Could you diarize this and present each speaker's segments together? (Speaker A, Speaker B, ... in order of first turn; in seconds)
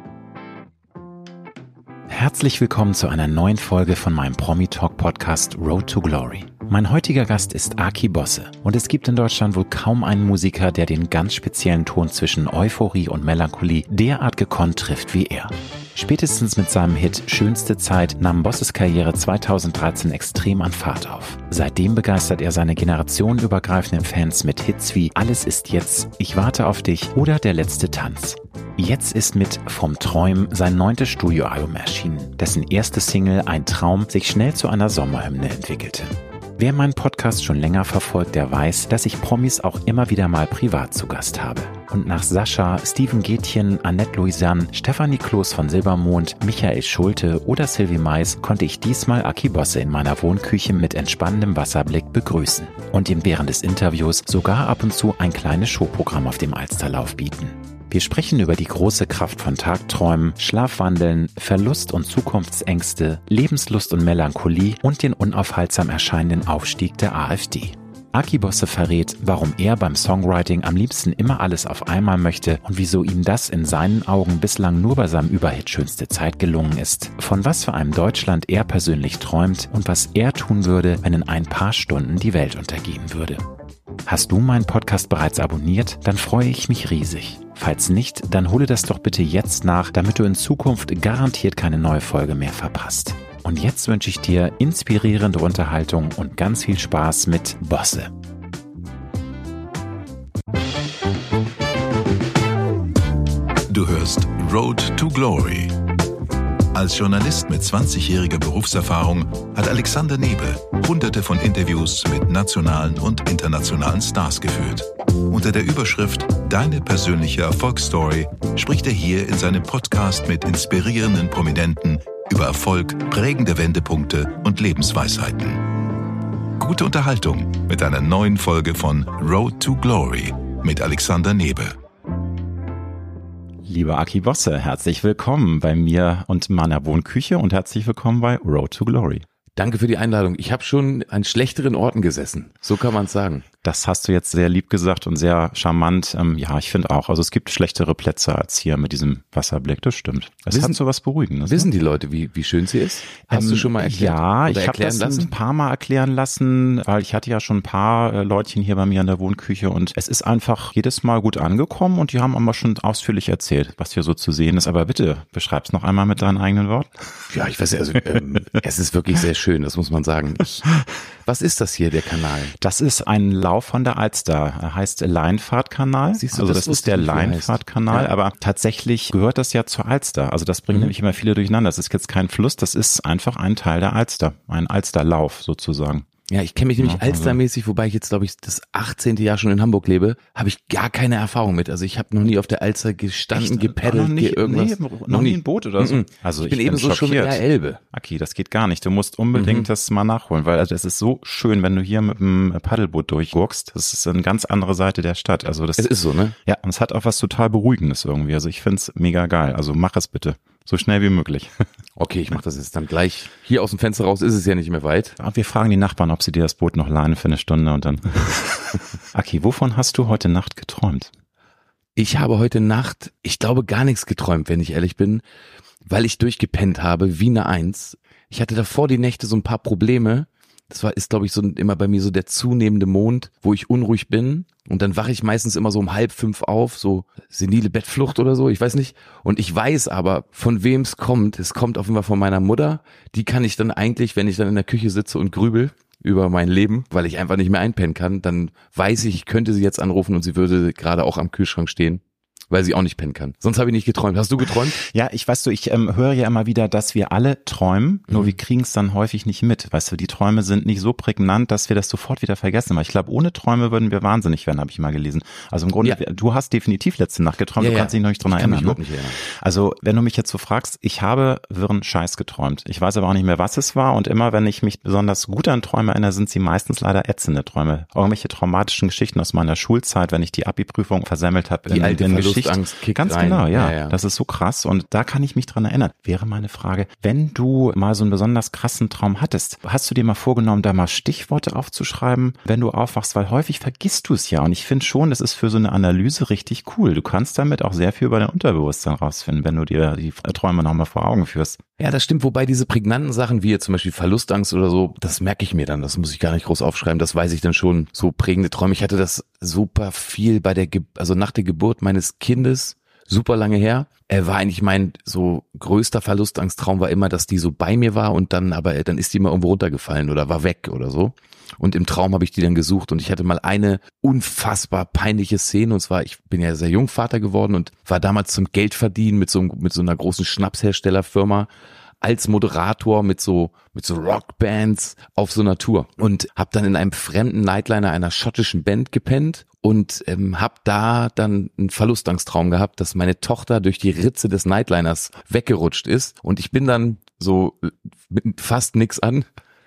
Speaker A: 2.1-83.5, 84.1-98.1, 133.7-139.2, 143.6-151.7, 153.3-167.1, 172.6-186.1, 186.8-187.4, 193.3-205.9, 206.4-211.7, 215.2-221.1, 254.8-301.6
Speaker B: 103.7-105.8, 106.7-125.7, 126.6-131.8
Speaker C: 139.6-143.4, 150.5-150.8, 151.4-155.3, 167.3-170.7, 171.2-172.5, 176.2-178.1, 186.3-197.8, 199.3-199.7, 205.8-206.3, 212.0-215.2, 222.0-225.2, 225.9-254.8, 258.1-258.4, 267.6-269.2, 281.7-284.0, 301.8-331.5, 332.0-349.3